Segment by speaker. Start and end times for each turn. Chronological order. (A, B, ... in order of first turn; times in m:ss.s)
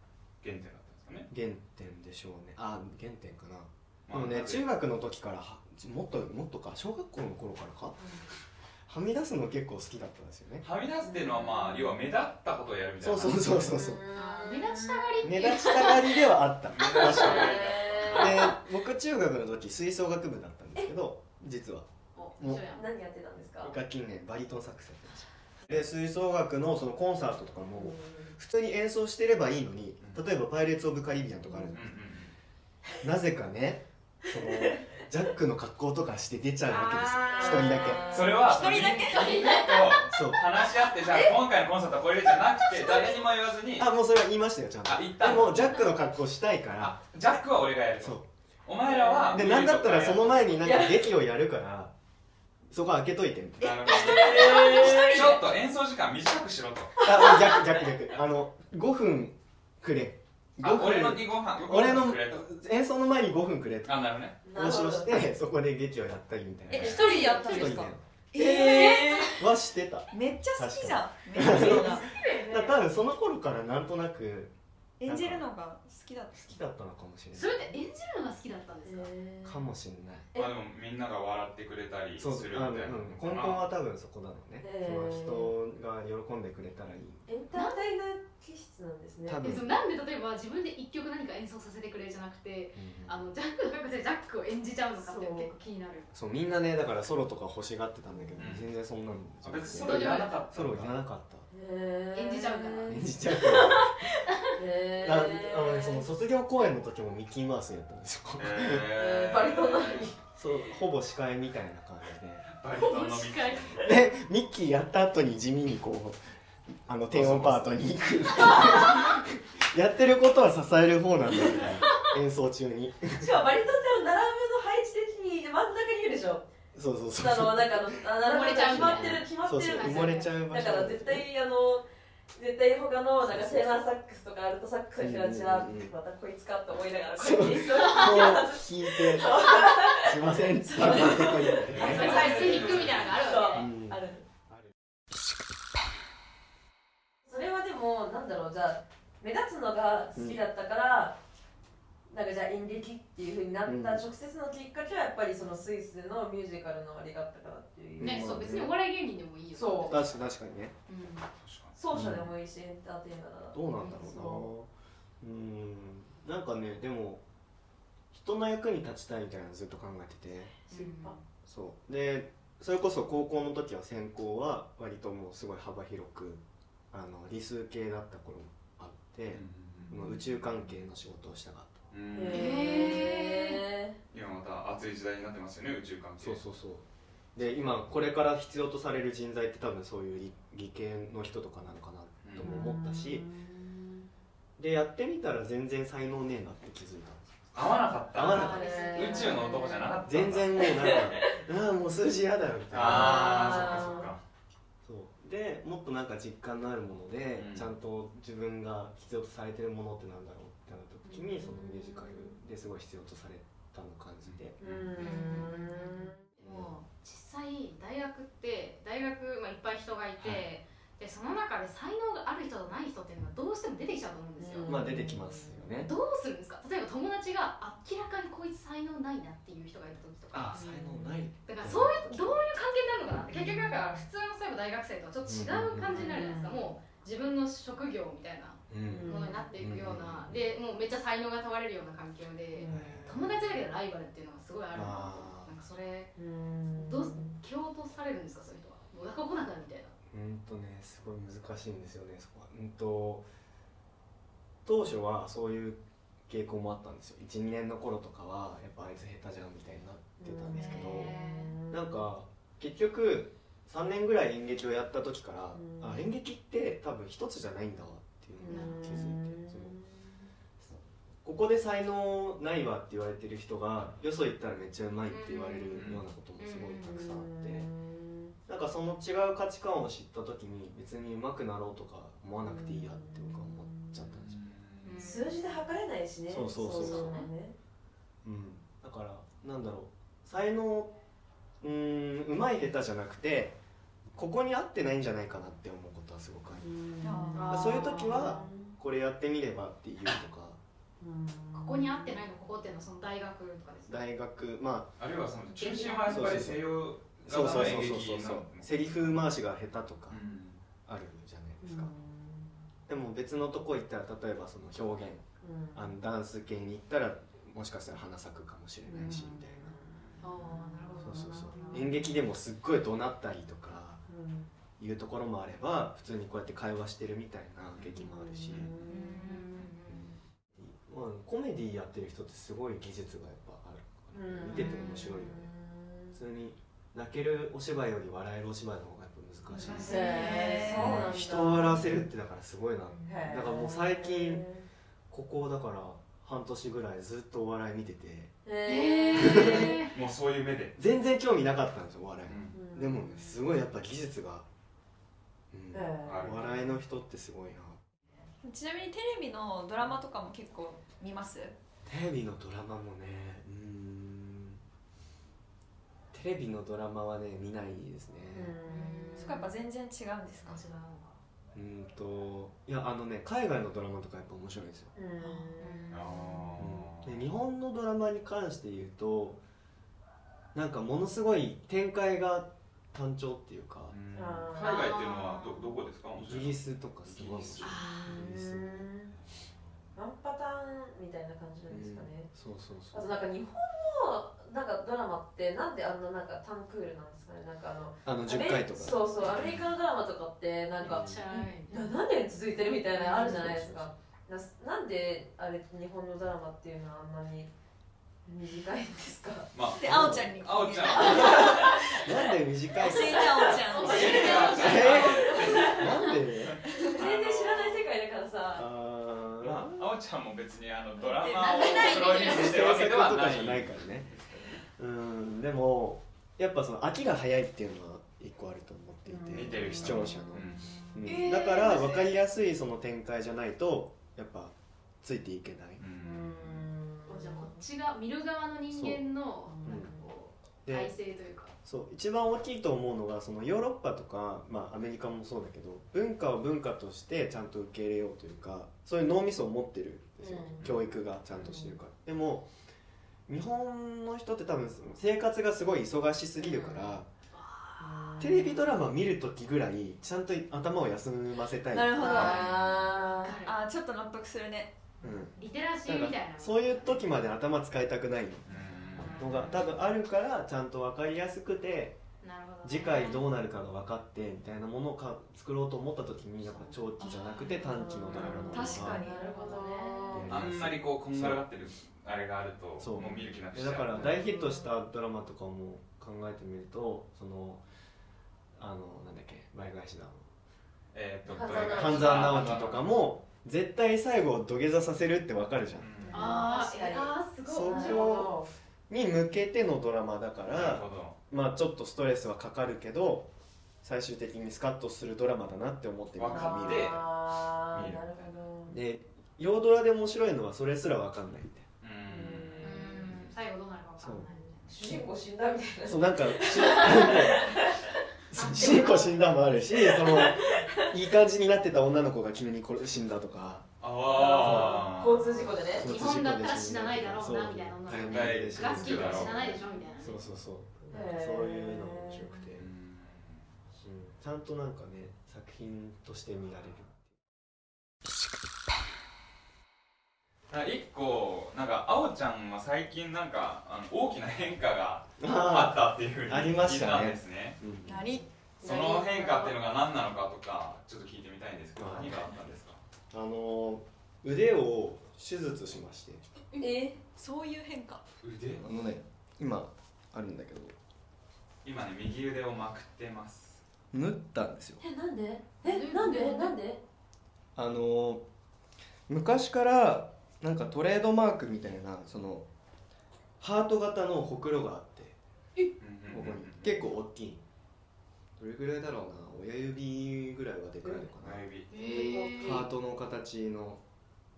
0:00.4-0:01.3 A
0:01.3-0:08.0 B
0:04.1-0:04.6 A
0:08.9-0:10.6 B
0:10.6-0:13.7 A
0:11.0-0:11.6 C
0:13.0-0:14.1 B
0:13.6-0:15.8 C
0:14.1-0:16.2 D
0:15.2-0:22.6 B
0:16.7-0:18.6 A
0:16.8-0:18.6 C
0:22.1-0:22.9 D
0:22.4-0:23.8 C
0:23.6-0:31.9 B
0:27.8-0:28.3 C
0:31.7-0:32.3 A
0:33.0-0:38.4 B
0:36.7-0:38.1 D
0:37.3-0:38.4 C
0:38.1-0:43.9 A
0:38.3-0:39.5 E
0:39.1-0:40.0 D
0:40.1-0:40.4 B
0:43.8-0:47.0 B
0:44.8-0:45.8 A
0:46.8-0:50.8 A
0:48.0-0:48.3 B
0:49.3-0:51.9 B
0:50.6-0:51.0 C
0:52.7-0:54.8 B
0:53.6-0:57.1 A
0:53.9-0:55.4 E
0:57.0-1:15.4 B
1:00.6-1:02.5 A
1:03.9-1:04.4 A
1:04.4-1:05.2 C
1:06.7-1:09.5 E
1:06.8-1:07.8 D
1:07.0-1:07.6 C
1:10.1-1:12.1 E
1:11.6-1:12.7 D
1:12.1-1:12.5 C
1:15.0-1:16.4 E
1:16.3-1:17.8 B
1:17.3-1:19.1 D
1:18.8-1:19.6 C
1:19.4-1:20.3 B
1:20.4-1:23.7 A
1:22.2-1:27.3 B
1:24.6-1:25.5 C
1:27.3-1:29.6 C
1:27.5-1:27.8 D
1:29.3-1:29.7 B
1:29.4-1:36.1 D
1:32.8-1:33.3 B
1:35.0-1:35.5 C
1:36.1-1:41.5 B
1:38.4-1:38.7 A
1:39.4-1:41.0 A
1:39.8-1:40.4 D
1:41.5-1:43.5 C
1:42.1-1:44.6 D
1:42.9-1:43.9 B
1:44.5-1:46.1 C
1:45.0-1:48.9 B
1:48.4-1:50.1 A
1:48.9-1:50.2 C
1:50.4-1:52.5 B
1:52.5-1:54.0 A
1:52.8-1:53.9 D
1:53.8-1:56.2 B
1:56.7-2:03.3 B
1:57.1-1:57.8 A
1:58.6-1:58.9 C
2:03.1-2:06.5 C
2:06.7-2:08.0 B
2:07.2-2:24.2 C
2:08.2-2:10.3 D
2:08.7-2:11.3 B
2:13.2-2:13.8 B
2:15.0-2:15.9 B
2:17.2-2:23.0 B
2:17.6-2:18.4 D
2:21.6-2:23.2 A
2:21.8-2:23.7 D
2:23.6-2:24.0 B
2:27.3-2:31.2 C
2:30.2-2:30.4 B
2:32.1-2:38.4 C
2:33.6-2:34.0 B
2:38.0-2:38.8 B
2:38.0-2:40.1 D
2:39.6-2:40.0 C
2:39.9-2:40.8 B
2:40.9-2:41.3 D
2:41.4-2:41.8 A
2:41.8-2:44.5 C
2:41.9-2:42.3 B
2:43.5-2:44.7 B
2:45.2-2:47.2 B
2:48.1-2:50.5 B
2:50.7-2:51.2 C
2:50.7-2:51.2 D
2:51.4-3:01.8 B
2:59.3-3:00.1 A
3:01.9-3:02.7 A
3:02.1-3:04.0 C
3:02.3-3:03.6 D
3:04.1-3:06.4 A
3:06.2-3:13.3 B
3:12.2-3:12.6 A
3:12.4-3:14.0 C
3:14.6-3:17.4 B
3:17.5-3:21.0 A
3:18.1-3:18.8 B
3:18.2-3:20.0 C
3:18.2-3:19.7 D
3:20.1-3:24.0 B
3:20.6-3:21.3 C
3:22.7-3:24.2 A
3:22.8-3:24.1 C
3:24.8-3:34.6 B
3:27.4-3:27.7 A
3:31.1-3:32.1 C
3:34.2-3:35.0 A
3:34.6-3:36.2 C
3:35.0-3:44.8 D
3:36.4-3:36.8 B
3:44.4-3:45.7 C
3:44.6-3:45.9 B
3:45.8-3:50.8 D
3:50.3-3:52.5 B
3:50.6-3:51.1 C
3:51.4-4:06.1 D
3:53.3-3:53.8 B
3:55.2-3:56.2 B
3:55.9-3:56.6 C
3:58.7-4:00.4 B
3:58.9-3:59.4 C
4:02.6-4:03.1 C
4:02.7-4:03.3 B
4:04.7-4:05.5 B
4:06.2-4:07.4 C
4:06.8-4:09.9 D
4:10.1-4:13.3 B
4:14.6-4:21.1 B
4:20.2-4:22.0 C
4:20.5-4:21.6 D
4:21.7-4:29.8 B
4:25.6-4:26.0 C
4:28.4-4:29.9 C
4:28.5-4:29.1 D
4:30.6-4:37.7 B
4:35.1-4:37.1 D
4:35.7-4:36.1 A
4:36.9-4:38.3 C
4:38.5-4:44.5 B
4:42.4-4:43.9 C
4:44.1-4:45.0 A
4:44.8-4:45.6 D
4:45.0-4:47.6 C
4:46.3-4:47.2 B
4:46.8-4:47.3 D
4:48.2-4:50.9 B
4:51.6-4:53.6 B
4:54.1-4:56.7 B
4:56.6-4:58.7 C
4:57.0-4:57.7 E
4:57.3-4:58.4 D
4:57.5-5:00.6 B
5:01.0-5:02.2 C
5:01.5-5:04.0 D
5:03.9-5:04.9 B
5:05.0-5:09.3 A
5:05.6-5:06.4 D
5:06.1-5:06.6 B
5:07.2-5:10.2 B
5:10.1-5:10.6 A
5:10.9-5:11.9 B
5:11.6-5:12.5 C
5:12.9-5:19.8 B
5:15.4-5:15.9 C
5:18.9-5:19.8 C
5:20.2-5:22.1 D
5:21.0-5:24.0 B
5:21.1-5:22.1 C
5:24.1-5:24.5 C
5:24.8-5:28.7 B
5:28.0-5:29.7 C
5:28.5-5:28.7 A
5:28.8-5:30.2 D
5:30.6-5:35.5 B
5:34.1-5:36.1 C
5:34.5-5:35.0 D
5:36.1-5:44.4 B
5:39.5-5:41.0 D
5:39.8-5:41.9 C
5:40.4-5:40.9 E
5:43.1-5:44.6 C
5:45.1-5:48.3 B
5:48.4-5:49.8 C
5:48.6-5:49.9 D
5:49.1-5:49.7 B
5:49.9-5:50.8 A
5:50.8-5:54.5 B
5:52.3-5:52.6 A
5:52.5-5:53.4 C
5:55.5-5:57.8 B
5:55.7-5:56.7 C
5:56.0-5:56.4 A
5:58.4-6:01.6 E
6:01.8-6:04.6 B
6:06.1-6:08.6 B
6:08.3-6:09.5 C
6:08.6-6:09.5 D
6:09.2-6:10.6 E
6:10.4-6:11.2 D
6:11.5-6:14.9 B
6:14.9-6:16.1 C
6:15.2-6:16.7 D
6:15.9-6:17.2 A
6:16.6-6:19.4 B
6:20.5-6:23.9 B
6:23.9-6:27.7 A
6:24.1-6:24.8 C
6:24.5-6:25.7 D
6:26.2-6:28.9 B
6:27.6-6:28.2 D
6:27.6-6:29.1 C
6:29.1-6:29.6 A
6:30.0-6:32.3 C
6:31.7-6:33.1 B
6:32.9-6:41.1 C
6:38.0-6:39.0 B
6:39.2-6:39.7 A
6:40.8-6:41.9 D
6:40.8-6:41.2 B
6:41.6-6:47.5 C
6:42.9-6:43.5 D
6:43.1-6:44.0 B
6:48.2-6:49.5 C
6:49.5-6:51.6 A
6:49.6-6:51.7 E
6:49.8-6:50.4 B
6:50.9-6:52.1 C
6:51.7-6:53.6 B
6:52.8-6:54.4 E
6:53.1-6:56.1 C
6:53.5-6:55.6 D
6:53.8-6:57.9 A
6:54.5-6:56.6 B
6:56.6-6:58.7 C
6:58.5-6:59.9 B
6:59.4-7:04.6 A
7:01.1-7:02.5 D
7:01.4-7:02.0 E
7:02.1-7:04.2 B
7:04.7-7:15.8 B
7:09.1-7:10.3 C
7:09.3-7:10.7 A
7:11.0-7:12.2 D
7:15.8-7:16.7 A
7:16.0-7:17.6 C
7:17.1-7:21.5 D
7:18.7-7:19.0 B
7:19.4-7:20.0 C
7:19.6-7:19.9 B
7:20.6-7:20.9 B
7:21.6-7:32.5 B
7:30.2-7:30.6 C
7:30.6-7:30.8 A
7:31.4-7:31.8 C
7:33.3-7:37.1 B
7:36.4-7:37.0 C
7:37.3-7:38.4 D
7:37.8-7:38.7 C
7:38.2-7:42.4 B
7:41.7-7:42.8 E
7:42.0-7:43.6 D
7:42.0-7:43.4 C
7:43.3-7:44.8 E
7:45.0-7:48.5 B
7:45.4-7:47.1 D
7:48.4-7:49.4 A
7:49.0-7:49.7 D
7:49.0-7:52.0 B
7:52.2-7:53.3 D
7:52.6-7:59.0 B
7:56.4-7:57.9 D
7:57.0-7:57.3 E
7:57.6-8:00.4 C
7:58.0-7:58.7 A
7:58.5-7:59.4 E
7:58.9-8:00.2 D
8:00.1-8:01.4 B
8:00.3-8:04.0 A
8:02.8-8:07.6 B
8:03.9-8:04.5 C
8:08.6-8:10.3 B
8:10.9-8:12.9 A
8:11.3-8:12.7 C
8:11.4-8:16.0 B
8:15.8-8:16.4 A
8:16.0-8:18.5 C
8:16.1-8:18.3 D
8:17.4-8:18.4 B
8:18.9-8:23.3 B
8:20.4-8:21.2 A
8:23.8-8:27.0 B
8:26.1-8:27.1 A
8:26.3-8:28.8 C
8:27.6-8:28.4 A
8:28.7-8:31.6 B
8:31.8-8:33.3 A
8:32.1-8:32.8 C
8:32.6-8:34.9 D
8:34.0-8:34.3 B
8:34.6-8:37.9 C
8:35.8-8:37.5 B
8:36.8-8:37.4 D
8:38.3-8:43.7 B
8:38.3-8:39.6 D
8:39.6-8:40.9 C
8:43.8-8:45.5 A
8:44.1-8:45.9 C
8:44.3-8:44.9 B
8:45.7-8:52.7 B
8:45.8-8:50.3 D
8:47.9-8:49.6 A
8:50.9-8:52.4 C
8:52.6-8:53.4 A
8:53.7-8:57.1 B
9:00.5-9:07.6 A
9:05.2-9:08.1 B
9:07.8-9:08.3 E
9:08.6-9:09.6 C
9:08.6-9:12.8 A
9:08.8-9:09.5 D
9:11.8-9:12.2 B
9:13.1-9:16.2 B
9:16.6-9:17.0 C
9:17.1-9:18.0 E
9:18.2-9:18.6 A
9:18.6-9:20.8 B
9:21.6-9:23.6 A
9:23.9-9:24.8 B
9:24.8-9:26.8 C
9:25.6-9:26.6 D
9:27.6-9:28.2 B
9:29.1-9:32.5 B
9:33.4-9:35.2 B
9:35.8-9:36.8 A
9:36.1-9:37.4 B
9:38.4-9:41.4 B
9:41.2-9:41.7 A
9:41.7-9:42.7 D
9:41.8-9:42.7 C
9:42.4-9:43.8 B